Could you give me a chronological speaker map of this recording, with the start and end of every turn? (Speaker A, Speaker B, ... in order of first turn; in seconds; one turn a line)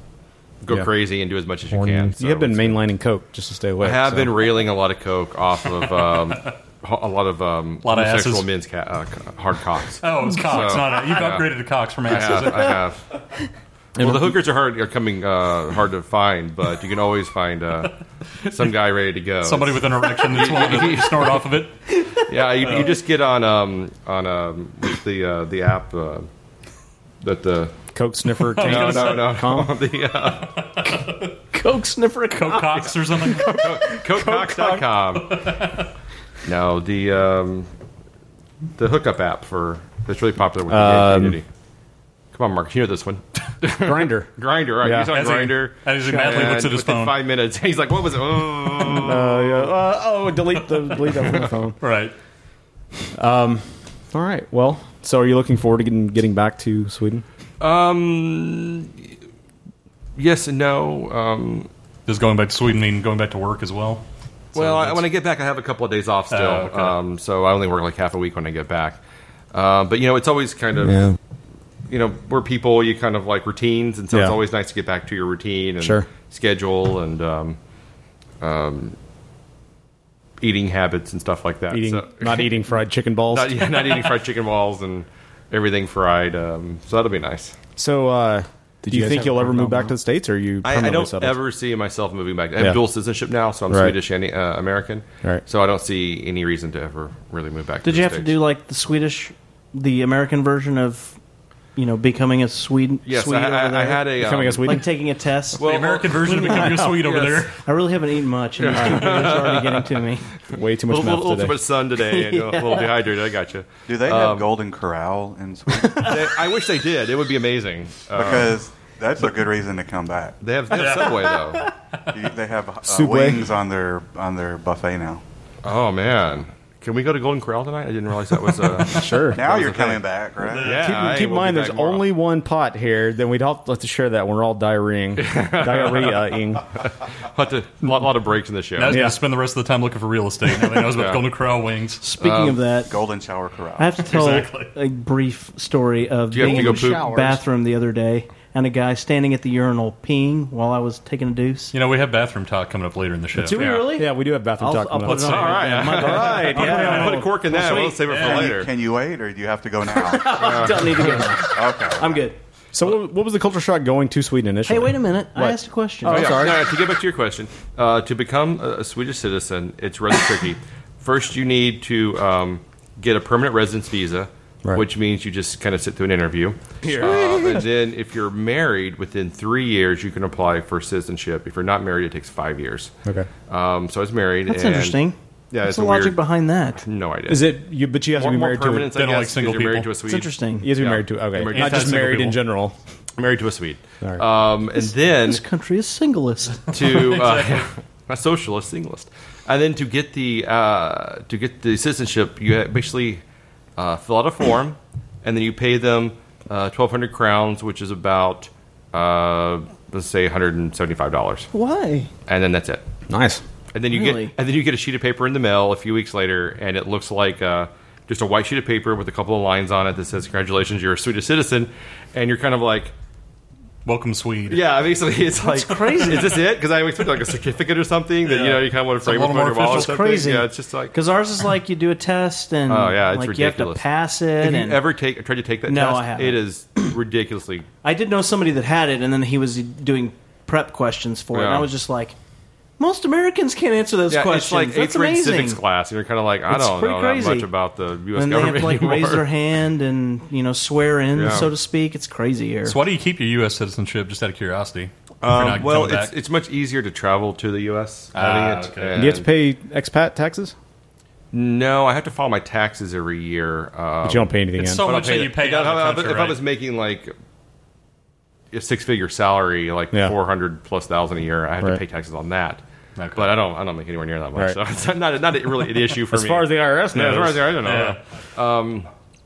Speaker A: 0.6-2.8
Speaker B: 1.7-4.4
Speaker A: 3.8-13.0
Speaker C: 7.8-8.5
Speaker C: 10.0-12.8
Speaker A: 13.9-21.4
Speaker B: 14.0-14.3
Speaker C: 19.4-21.7
Speaker A: 22.2-26.3
Speaker C: 22.6-22.9
Speaker A: 27.2-27.7
Speaker B: 27.9-29.7
Speaker C: 28.5-29.3
Speaker A: 28.6-30.6
Speaker D: 31.5-32.9
Speaker C: 32.3-33.6
Speaker A: 33.4-35.4
Speaker B: 33.5-34.8
Speaker C: 35.3-35.9
Speaker A: 36.4-37.7
Speaker A: 38.8-41.4
Speaker B: 40.7-41.4
Speaker A: 42.3-49.7
Speaker B: 43.8-44.3
Speaker B: 44.8-45.1
Speaker C: 45.1-47.2
Speaker B: 48.9-51.8
Speaker C: 51.8-52.1
Speaker B: 53.1-57.2
Speaker A: 57.6-59.1
Speaker A: 60.2-61.7
Speaker C: 62.1-64.0
Speaker C: 64.5-65.0
Speaker A: 64.5-69.0
Speaker C: 66.3-66.9
Speaker A: 69.5-71.1
Speaker B: 70.8-71.2
Speaker A: 71.9-77.6
Speaker B: 74.1-74.4
Speaker B: 75.8-76.1
Speaker A: 78.4-79.0
Speaker A: 80.4-82.8
Speaker B: 81.7-84.0
Speaker A: 83.3-87.5
Speaker B: 87.8-91.3
Speaker A: 89.0-89.4
Speaker A: 90.6-98.4
Speaker B: 93.7-93.9
Speaker D: 97.8-101.2
Speaker D: 101.8-104.0
Speaker A: 103.0-104.8
Speaker B: 104.2-104.9
Speaker D: 104.6-105.6
Speaker A: 105.6-107.5
Speaker C: 105.6-107.5
Speaker D: 107.6-110.2
Speaker A: 108.6-109.8
Speaker B: 108.8-109.3
Speaker B: 110.5-111.5
Speaker A: 110.9-114.5
Speaker D: 112.2-112.8
Speaker E: 113.9-116.3
Speaker A: 115.8-118.6
Speaker E: 118.1-120.4
Speaker A: 120.4-121.7
Speaker C: 120.7-121.4
Speaker E: 122.1-125.2
Speaker B: 122.8-123.5
Speaker A: 125.6-130.0
Speaker B: 128.9-129.4
Speaker E: 129.3-130.7
Speaker A: 130.5-132.0
Speaker C: 130.6-130.9
Speaker B: 130.6-136.6
Speaker A: 135.2-139.0
Speaker C: 138.8-142.0
Speaker B: 138.9-139.2
Speaker A: 140.7-141.2
Speaker D: 142.0-142.9
Speaker A: 142.2-142.6
Speaker E: 142.9-143.9
Speaker D: 143.8-151.7
Speaker C: 144.1-144.7
Speaker A: 146.3-147.1
Speaker B: 146.4-147.4
Speaker C: 151.7-153.9
Speaker D: 153.3-157.1
Speaker B: 153.9-157.8
Speaker C: 155.0-157.2
Speaker A: 155.2-158.7
Speaker D: 157.6-157.9
Speaker C: 158.0-158.5
Speaker E: 158.2-160.7
Speaker D: 159.9-162.4
Speaker A: 160.2-161.2
Speaker E: 161.5-162.2
Speaker B: 162.7-166.7
Speaker D: 164.7-166.4
Speaker A: 166.0-182.9
Speaker B: 176.8-177.7
Speaker A: 183.5-185.0
Speaker D: 184.5-186.8
Speaker A: 185.5-186.2
Speaker A: 186.8-187.6
Speaker B: 187.3-188.9
Speaker A: 188.1-192.3
Speaker C: 188.9-189.9
Speaker D: 190.1-190.7
Speaker B: 190.6-192.8
Speaker C: 191.5-192.3
Speaker A: 193.2-195.4
Speaker D: 194.8-196.9
Speaker A: 196.7-203.2
Speaker C: 196.8-197.7
Speaker A: 203.8-211.5
Speaker D: 211.5-212.1
Speaker A: 212.3-212.8
Speaker B: 213.1-213.4
Speaker A: 213.7-222.9
Speaker D: 213.9-214.3
Speaker C: 223.8-224.6
Speaker A: 224.5-230.9
Speaker D: 225.5-226.3
Speaker C: 228.2-230.1
Speaker D: 229.6-234.8
Speaker A: 232.7-233.8
Speaker A: 234.4-237.7
Speaker D: 235.7-236.4
Speaker D: 237.8-242.2
Speaker A: 241.3-241.7
Speaker D: 242.8-245.6
Speaker A: 244.1-249.2
Speaker D: 246.5-247.5
Speaker D: 248.1-252.8
Speaker A: 251.1-251.5
Speaker C: 252.6-256.1
Speaker A: 255.2-259.3
Speaker C: 258.1-259.0
Speaker B: 258.9-260.5
Speaker A: 261.3-267.1
Speaker B: 264.0-264.8
Speaker C: 264.6-266.4
Speaker A: 268.5-272.6
Speaker C: 273.0-273.3
Speaker A: 273.1-278.9
Speaker B: 276.1-277.5
Speaker C: 277.6-278.0